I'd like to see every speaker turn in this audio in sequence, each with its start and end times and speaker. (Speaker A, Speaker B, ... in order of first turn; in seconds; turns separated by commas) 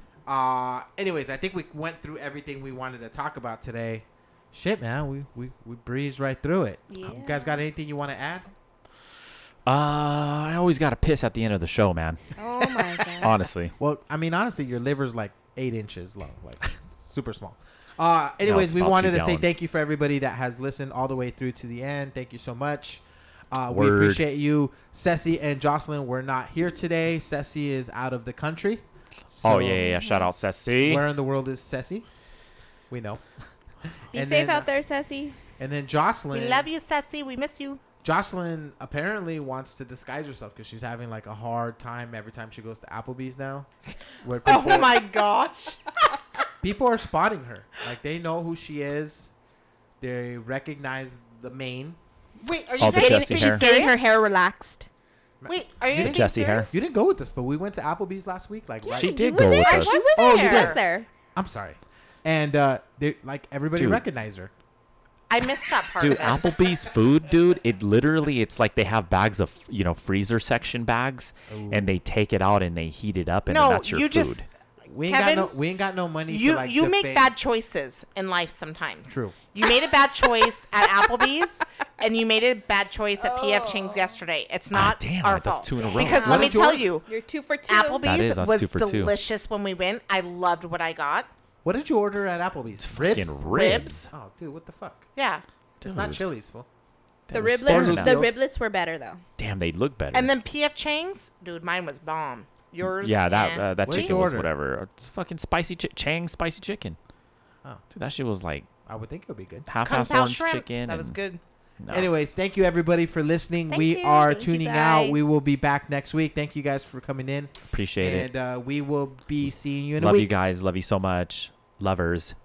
Speaker A: 0.3-8.5, Speaker B: 6.9-7.6, Speaker C: 9.7-12.2, Speaker B: 12.4-13.3, Speaker C: 13.2-13.7, Speaker A: 13.8-29.9, Speaker C: 18.4-19.5, Speaker C: 23.7-24.2, Speaker C: 29.4-31.1, Speaker B: 29.8-30.3, Speaker A: 30.8-32.1, Speaker A: 32.9-33.2, Speaker A: 34.1-34.7, Speaker B: 34.1-35.4, Speaker A: 35.6-36.7, Speaker D: 36.3-37.8, Speaker A: 38.0-43.7, Speaker A: 44.2-45.0, Speaker D: 44.5-46.2, Speaker A: 46.6-49.3, Speaker A: 50.0-52.0, Speaker D: 52.4-54.0, Speaker C: 52.8-53.7, Speaker B: 52.8-54.9, Speaker A: 55.4-59.4, Speaker D: 55.5-56.8, Speaker C: 55.9-56.8, Speaker B: 58.9-61.1, Speaker C: 58.9-60.0, Speaker D: 59.5-60.8, Speaker A: 60.2-60.8, Speaker A: 61.3-64.5, Speaker C: 63.8-64.0, Speaker D: 65.3-66.5, Speaker C: 66.0-74.5, Speaker A: 71.5-71.9, Speaker D: 73.5-74.5, Speaker A: 74.9-77.3, Speaker D: 75.1-75.5, Speaker D: 76.3-87.1, Speaker A: 79.1-79.4, Speaker B: 83.2-84.2, Speaker C: 84.7-86.6, Speaker B: 85.8-88.2, Speaker A: 86.1-86.9, Speaker D: 87.7-91.3, Speaker C: 88.0-89.2, Speaker A: 91.6-95.1, Speaker C: 92.8-94.1, Speaker D: 93.5-93.9, Speaker D: 95.2-95.4, Speaker C: 95.8-96.2, Speaker A: 95.8-96.7, Speaker C: 97.3-98.3, Speaker B: 97.3-99.2, Speaker A: 97.7-98.4, Speaker C: 99.4-100.3, Speaker D: 100.1-104.3, Speaker C: 102.8-107.0, Speaker A: 103.8-104.5, Speaker C: 107.9-108.7, Speaker A: 108.9-109.7, Speaker C: 109.7-111.2, Speaker D: 109.8-111.4, Speaker C: 111.8-112.1, Speaker A: 111.9-120.3, Speaker B: 113.7-115.3, Speaker C: 117.7-118.3, Speaker C: 120.0-122.3